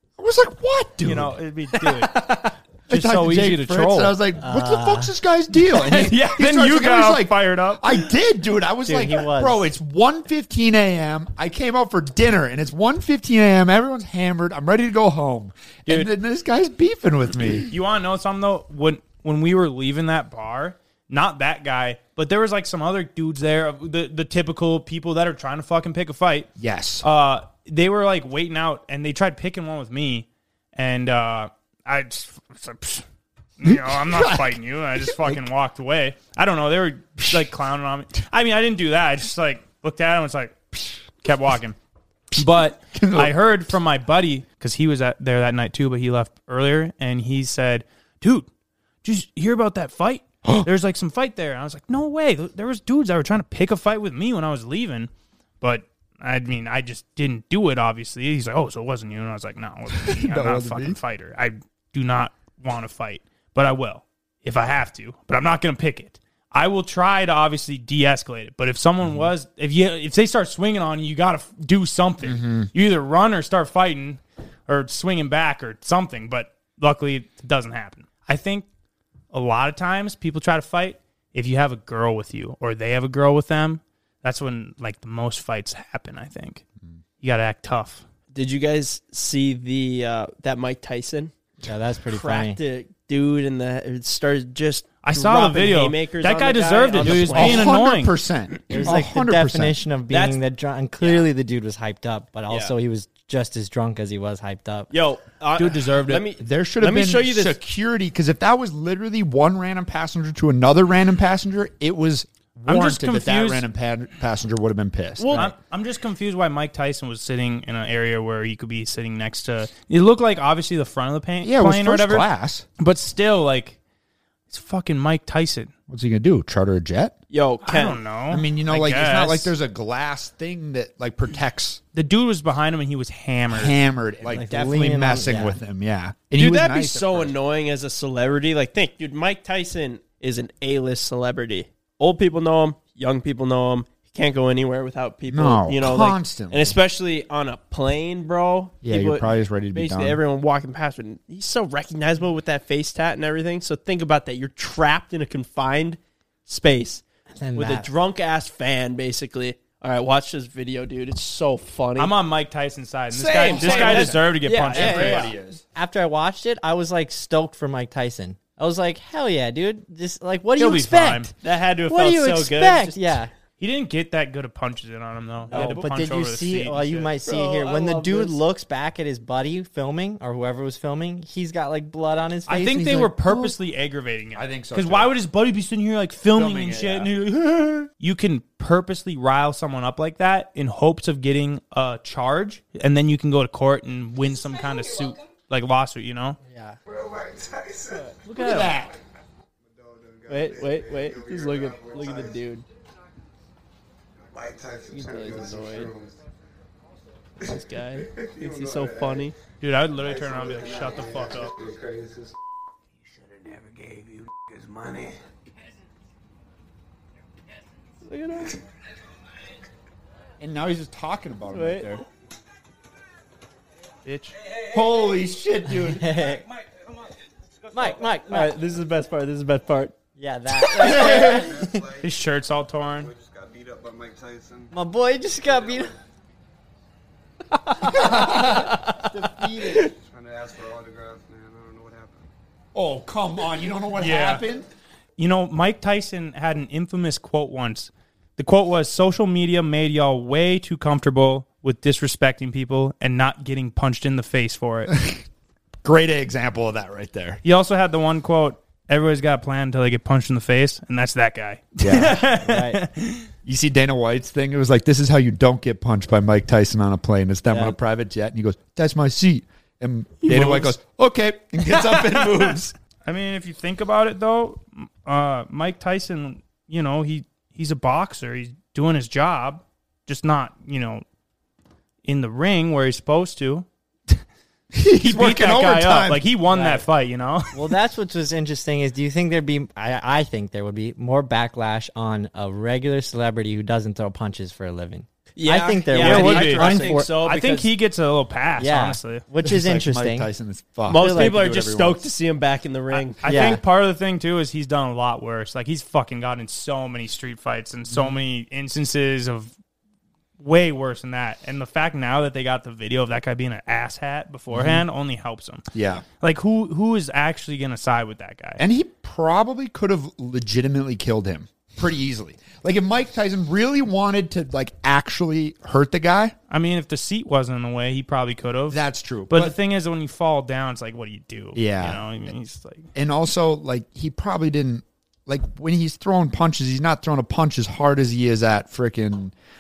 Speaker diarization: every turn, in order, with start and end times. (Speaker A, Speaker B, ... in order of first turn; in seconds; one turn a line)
Speaker A: 0.2-1.3
Speaker B: 1.0-4.2
Speaker C: 2.2-2.5
Speaker A: 2.9-17.7
Speaker D: 4.4-5.1
Speaker B: 5.7-8.1
Speaker D: 8.8-9.7
Speaker B: 17.7-26.5
Speaker A: 26.6-27.0
Speaker B: 27.0-33.0
Speaker B: 33.6-41.8
Speaker A: 33.6-35.4
Speaker B: 42.4-48.5
Speaker A: 42.9-43.4
Speaker B: 49.0-55.1
Speaker A: 50.4-50.7
Speaker B: 55.6-78.7
Speaker A: 60.0-61.0
Speaker A: 72.2-72.7
Speaker B: 79.3-86.6
Speaker B: 87.2-88.0
Speaker C: 88.3-91.3
Speaker D: 91.6-92.6
Speaker C: 92.1-97.7
Speaker B: 95.0-98.2
Speaker A: 97.0-99.8
Speaker D: 98.7-104.9
Speaker C: 100.1-100.4
Speaker C: 101.0-101.3
Speaker C: 104.9-107.6
Speaker B: 105.6-106.2
Speaker A: 106.4-115.5
Speaker B: 112.7-113.7
Speaker C: 115.2-115.5
Speaker B: 115.3-122.3
Speaker A: 121.4-122.7
Speaker B: 122.8-123.8
Speaker B: 124.5-125.7
Speaker A: 125.9-127.1
Speaker C: 127.3-128.0
Speaker B: 127.6-129.5
Speaker A: 128.3-131.8
Speaker B: 131.9-133.8
Speaker A: 133.5-137.3
Speaker D: 134.3-135.6
Speaker C: 136.4-157.0
Speaker A: 145.3-146.8
Speaker A: 148.8-150.2
Speaker D: 157.4-157.9
Speaker C: 157.6-162.2
Speaker B: 162.0-165.3
Speaker A: 163.1-165.6
Speaker C: 163.2-165.3
Speaker D: 165.8-171.3
Speaker B: 170.6-171.3
Speaker C: 171.4-173.2
Speaker D: 171.9-173.3
Speaker B: 173.6-177.1
Speaker A: 175.5-175.8
Speaker D: 175.5-183.5
Speaker C: 177.3-178.4
Speaker B: 182.5-196.4
Speaker A: 184.3-185.1
Speaker A: 186.3-187.1
Speaker D: 196.5-196.8
Speaker E: 196.9-198.2
Speaker B: 198.3-198.7
Speaker A: 198.3-199.0
Speaker E: 199.7-202.4
Speaker C: 200.3-202.6
Speaker E: 204.3-206.2
Speaker C: 204.9-205.9
Speaker C: 207.5-209.4
Speaker E: 207.5-209.3
Speaker B: 209.6-211.5
Speaker E: 210.0-212.3
Speaker E: 213.3-215.2
Speaker C: 218.1-218.6
Speaker A: 220.4-222.0
Speaker C: 221.5-221.9
Speaker B: 224.1-224.3
Speaker A: 224.7-226.1
Speaker D: 225.7-226.4
Speaker D: 227.7-228.5
Speaker C: 228.3-229.9
Speaker D: 230.2-231.7
Speaker E: 230.9-232.2
Speaker B: 232.0-233.1
Speaker E: 233.0-234.8
Speaker D: 234.7-235.9
Speaker E: 235.4-236.0
Speaker A: 237.9-238.8
Speaker D: 239.0-239.9
Speaker E: 239.7-242.3
Speaker A: 242.8-244.7
Speaker B: 244.0-244.4
Speaker B: 245.2-254.9
Speaker A: 254.9-255.2
Speaker A: 255.8-257.4
Speaker B: 257.4-263.3
Speaker A: 261.8-262.1
Speaker D: 262.2-262.8
Speaker A: 263.4-272.7
Speaker D: 267.5-267.8
Speaker B: 270.3-270.6
Speaker B: 271.8-281.0
Speaker B: 282.0-284.2
Speaker A: 284.8-286.2
Speaker B: 285.0-287.6
Speaker D: 286.5-286.9
Speaker D: 287.5-297.1
Speaker C: 295.4-297.7
Speaker B: 296.0-299.2
Speaker D: 298.6-300.3
Speaker A: 299.4-302.0
Speaker C: 300.9-303.5
Speaker D: 300.9-301.4
Speaker B: 302.9-309.5
Speaker D: 303.2-303.6
Speaker A: 307.9-308.2
Speaker B: 310.4-315.6
Speaker A: 314.5-314.9
Speaker A: 315.7-316.1
Speaker B: 316.2-318.6
Speaker A: 318.6-326.4
Speaker B: 326.5-332.9
Speaker A: 328.7-329.6
Speaker A: 331.6-332.1
Speaker A: 333.0-339.3